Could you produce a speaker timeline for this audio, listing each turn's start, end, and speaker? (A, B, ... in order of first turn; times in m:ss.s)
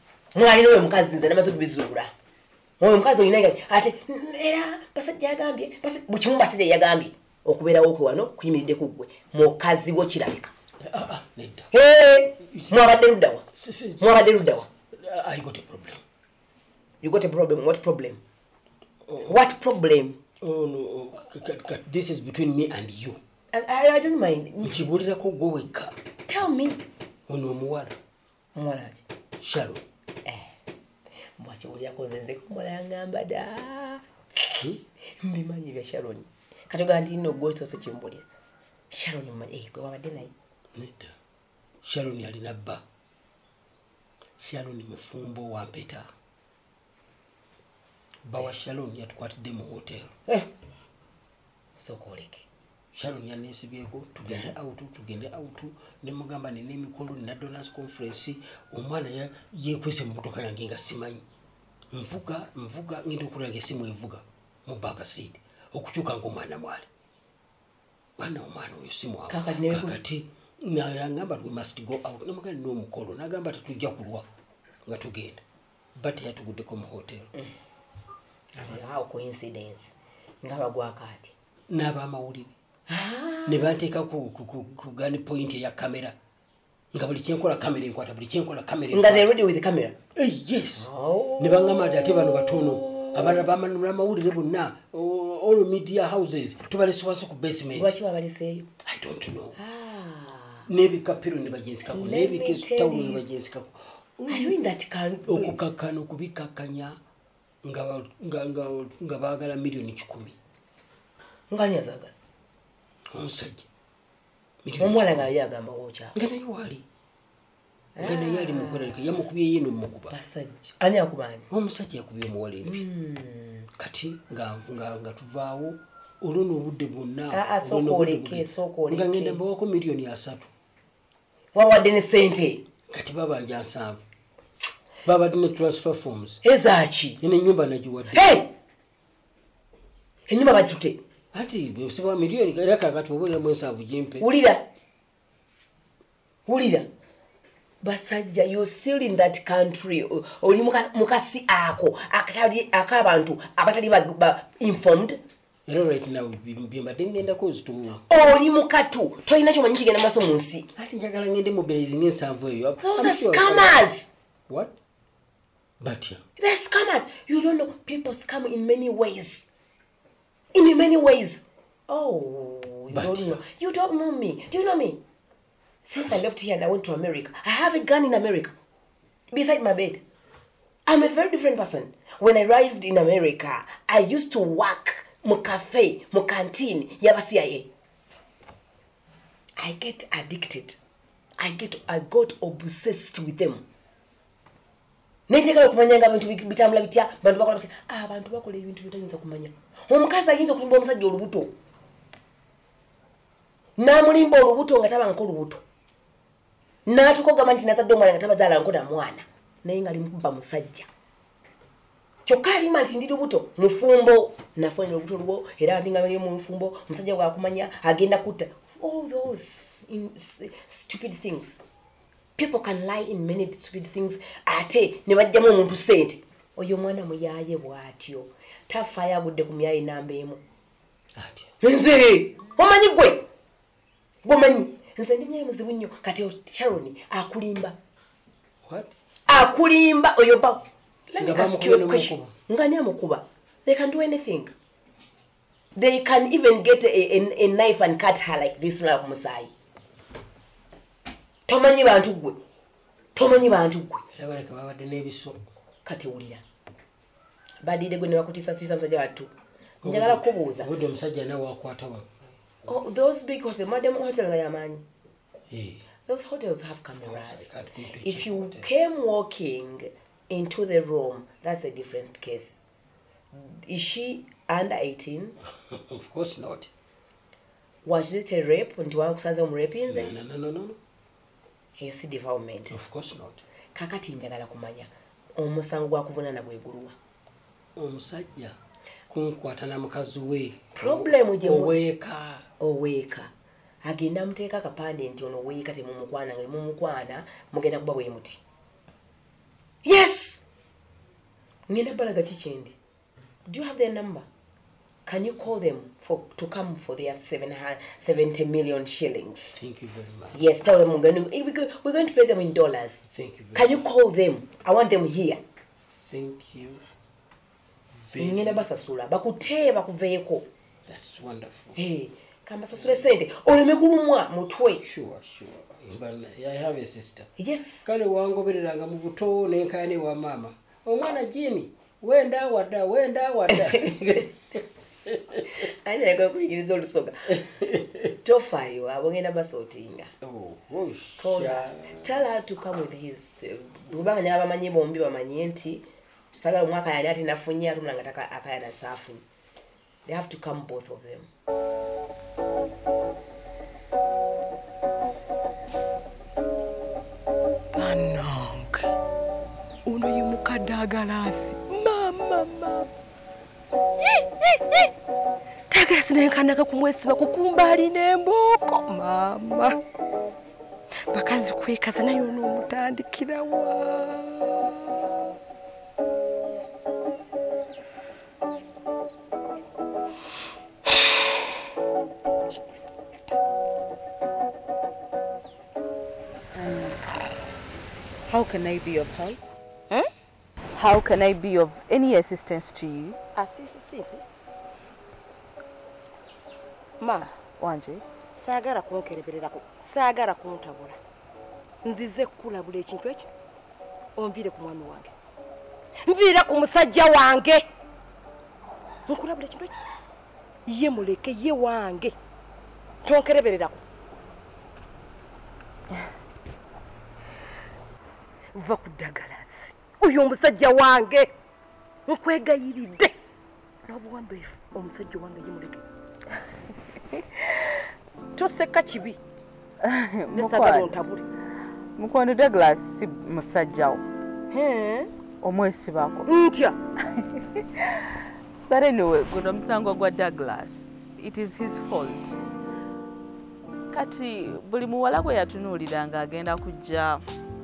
0:00.3-0:02.1 A
0:02.8-0:10.5 A
0:10.8-0:11.7 B
0:11.7-0:13.4 A
0:12.5-0:13.0 B
0:13.5-0:16.0 B
0:14.0-0:14.6 A
0:17.0-0:18.2 A
0:19.1-0:19.4 B
0:19.2-0:20.2 A
0:20.4-0:23.2 B
0:23.5-0:24.8 A
0:24.6-0:26.0 B
0:26.3-0:26.8 A
0:27.3-0:28.0 B
0:28.5-0:29.0 A
0:29.4-0:29.8 B
0:30.2-0:30.5 A
0:31.4-0:34.6 A
0:35.2-0:38.2 A
0:38.9-0:40.3 A
0:40.7-0:41.1 B
0:41.8-0:42.8 B
0:44.4-0:46.1 B
0:48.2-0:50.2 B
0:51.8-0:52.4 A
0:52.9-1:01.2 B
1:01.9-1:06.9 B
1:08.2-1:14.3 B
1:09.3-1:10.0 A
1:14.8-1:15.4 B
1:16.0-1:17.3 B
1:18.6-1:21.3 A
1:21.7-1:22.5 B
1:22.9-1:23.7 A
1:23.4-1:26.2 B
1:26.9-1:29.3 B
1:28.9-1:30.0 A
1:30.2-1:38.0 B
1:30.8-1:33.4 A
1:37.7-1:38.7 A
1:38.8-1:39.6 B
1:39.6-1:40.7 A
1:40.7-1:44.6 B
1:41.9-1:43.2 A
1:44.3-1:45.6 A
1:45.2-1:47.0 B
1:47.6-1:50.3 B
1:51.5-1:52.1 A
1:53.1-1:53.7 B
1:54.6-1:55.3 B
1:54.8-1:56.2 A
1:56.1-1:56.8 B
1:58.0-1:59.1 A
1:58.0-2:00.1 B
2:00.1-2:01.5 A
2:01.5-2:02.8 B
2:02.6-2:03.7 A
2:03.8-2:10.5 B
2:07.3-2:09.4 A
2:11.5-2:12.6 A
2:12.9-2:14.0 B
2:15.0-2:16.4 B
2:16.4-2:17.2 A
2:17.2-2:18.4 B
2:18.1-2:18.5 A
2:20.3-2:21.0 A
2:21.3-2:24.2 B
2:24.2-2:24.6 A
2:26.5-2:26.9 A
2:27.8-2:35.2 A
2:35.7-2:38.1 B
2:38.1-2:40.7 A
2:40.8-2:43.8 B
2:42.8-2:44.1 A
2:44.5-2:44.7 B
2:45.8-2:46.2 B
2:46.4-2:49.5 A
2:50.5-2:55.0 A
2:52.9-2:53.4 B
2:55.8-2:58.5 A
2:59.3-3:00.0 A
3:00.9-3:07.7 A
3:09.6-3:10.8 A
3:11.4-3:13.6 A
3:15.3-3:21.5 A
3:23.8-3:25.6 A
3:26.8-3:30.9 A
3:32.2-3:41.6 A
3:42.4-3:50.4 A
3:51.1-3:51.5 B
3:51.6-3:53.2 A
3:54.2-3:57.8 A
3:58.6-3:58.9 B
3:59.3-4:04.5 A
4:01.2-4:02.3 B
4:05.8-4:09.5 A
4:11.5-4:12.4 A
4:13.1-4:14.0 A
4:14.1-4:15.4 B
4:15.8-4:16.4 A
4:17.6-4:19.3 A
4:19.8-4:22.2 B
4:19.8-4:20.7 A
4:22.6-4:24.8 A
4:25.5-4:25.8 B
4:26.1-4:32.7 A
4:27.0-4:28.7 B
4:33.3-4:35.4 A
4:35.7-4:36.7 B
4:37.8-4:40.1 A
4:39.9-4:40.8 B
4:41.8-4:42.8 A
4:42.7-4:43.4 B
4:43.7-4:46.9 A
4:47.8-4:48.6 B
4:49.1-4:52.4 B
4:50.7-4:51.8 A
4:52.6-4:53.3 A
4:53.8-4:58.4 A
4:59.8-5:00.4 A
5:01.7-5:02.8 A
5:03.4-5:04.3 A
5:05.0-5:09.6 A
5:09.5-5:10.4 B
5:10.3-5:15.4 A
5:13.1-5:13.8 B
5:16.0-5:16.8 B
5:17.9-5:18.6 B
5:18.2-5:20.5 A
5:20.8-5:21.8 B
5:21.7-5:24.8 A
5:24.8-5:27.3 B
5:27.4-5:27.8 A
5:27.8-5:35.5 B
5:33.7-5:34.2 A
5:35.5-5:37.4 A
5:37.3-5:38.1 B
5:38.2-5:40.1 A
5:40.2-5:42.0 B
5:41.2-5:49.2 A
5:50.0-5:51.3 A
5:57.7-5:58.9 C
5:59.8-6:02.9 C
6:04.0-6:04.9 C
6:05.7-6:09.8 C
6:11.1-6:15.0 C
6:26.5-6:27.0 D
6:28.3-6:29.4 D
6:30.7-6:33.2 D
6:33.3-6:34.2 C
6:37.0-6:37.3 C
6:37.6-6:38.0 D
6:38.4-6:41.0 C
6:41.8-6:43.3 C
6:44.2-6:45.1 C
6:46.0-6:47.6 C
6:49.1-6:49.7 C
6:50.7-6:52.2 C
6:53.0-6:53.8 C
6:58.5-7:01.3 C
7:02.1-7:03.1 C
7:03.8-7:05.8 C
7:08.3-7:09.2 C
7:09.8-7:10.9 D
7:10.3-7:11.2 C
7:12.0-7:14.0 D
7:14.5-7:15.1 C
7:15.4-7:16.3 D
7:16.3-7:16.8 C
7:17.1-7:18.1 D
7:18.7-7:22.4 D
7:23.9-7:27.2 D